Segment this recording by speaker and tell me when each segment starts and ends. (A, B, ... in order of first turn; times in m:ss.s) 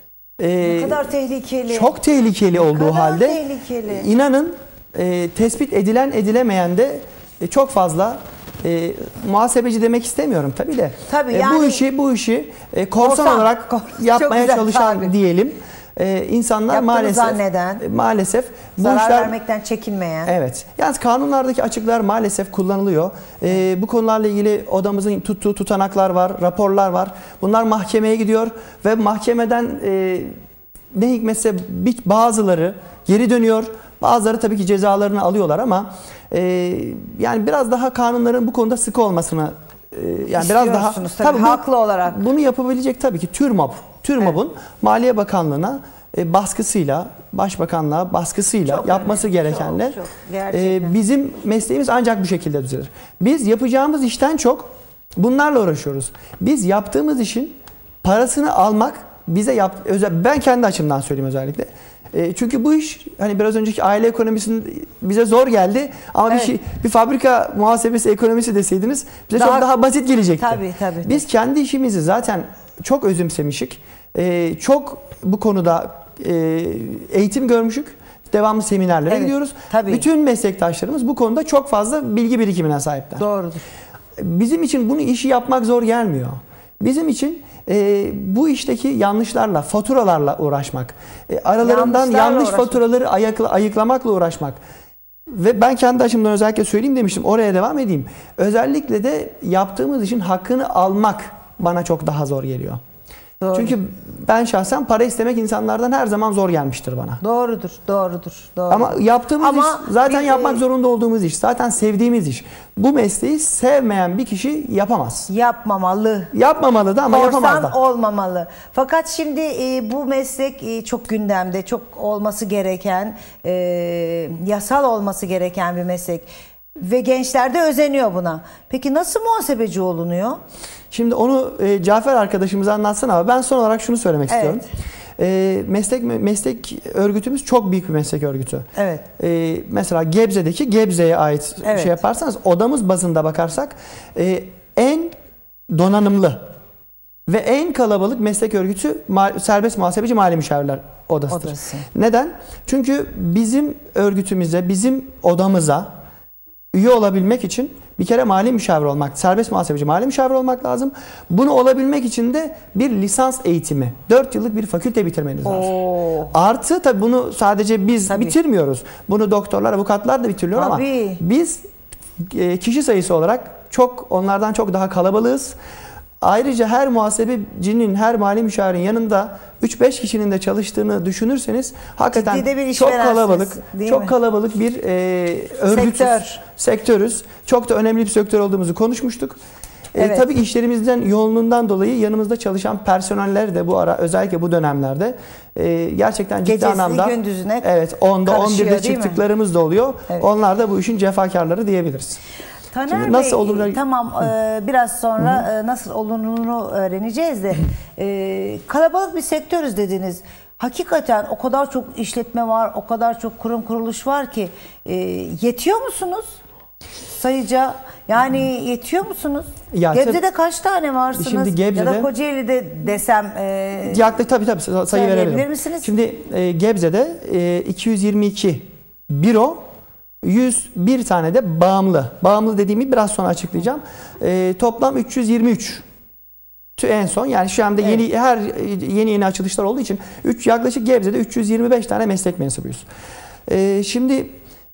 0:00.4-0:01.1 A
0:00.6-0:01.9 B
0:01.7-0:19.3 A
0:02.6-0:04.1 B
0:11.1-0:11.8 B
0:13.0-0:15.1 B
0:16.7-0:17.8 B
0:18.8-0:20.3 B
0:20.2-0:30.3 A
0:30.9-0:50.0 A
0:40.4-0:42.2 B
0:48.7-0:51.0 B
0:50.5-1:23.2 A
1:09.3-1:09.7 B
1:10.4-1:11.2 B
1:19.1-1:20.1 B
1:23.2-1:23.6 B
1:24.2-1:34.6 A
1:31.6-1:32.8 B
1:35.3-1:42.8 A
1:43.4-1:43.8 B
1:43.5-1:47.2 A
1:47.2-1:50.6 B
1:48.7-1:55.3 A
1:55.3-1:56.3 B
1:56.3-1:57.8 A
1:57.1-2:10.4 B
2:10.9-2:14.6 A
2:14.3-2:14.7 B
2:15.2-2:18.7 A
2:18.8-2:19.1 B
2:19.2-2:25.1 A
2:21.6-2:22.0 B
2:25.7-2:26.4 A
2:27.3-2:35.9 A
2:31.3-2:31.9 B
2:36.7-2:45.8 A
2:45.4-2:46.3 B
2:46.3-2:51.6 A
2:48.1-2:48.4 B
2:50.5-2:51.2 B
2:52.2-2:55.6 A
2:56.2-3:09.4 A
3:02.1-3:04.1 B
3:05.7-3:06.4 B
3:09.9-3:22.2 A
3:10.0-3:10.3 B
3:16.4-3:17.7 B
3:18.2-3:19.2 B
3:22.7-3:36.4 B
3:22.9-3:23.8 A
3:37.2-3:44.0 B
3:39.7-3:40.2 A
3:41.2-3:42.1 A
3:43.8-3:49.6 A
3:44.9-3:45.9 B
3:50.2-3:55.8 A
3:56.8-4:02.8 A
4:03.5-4:04.3 A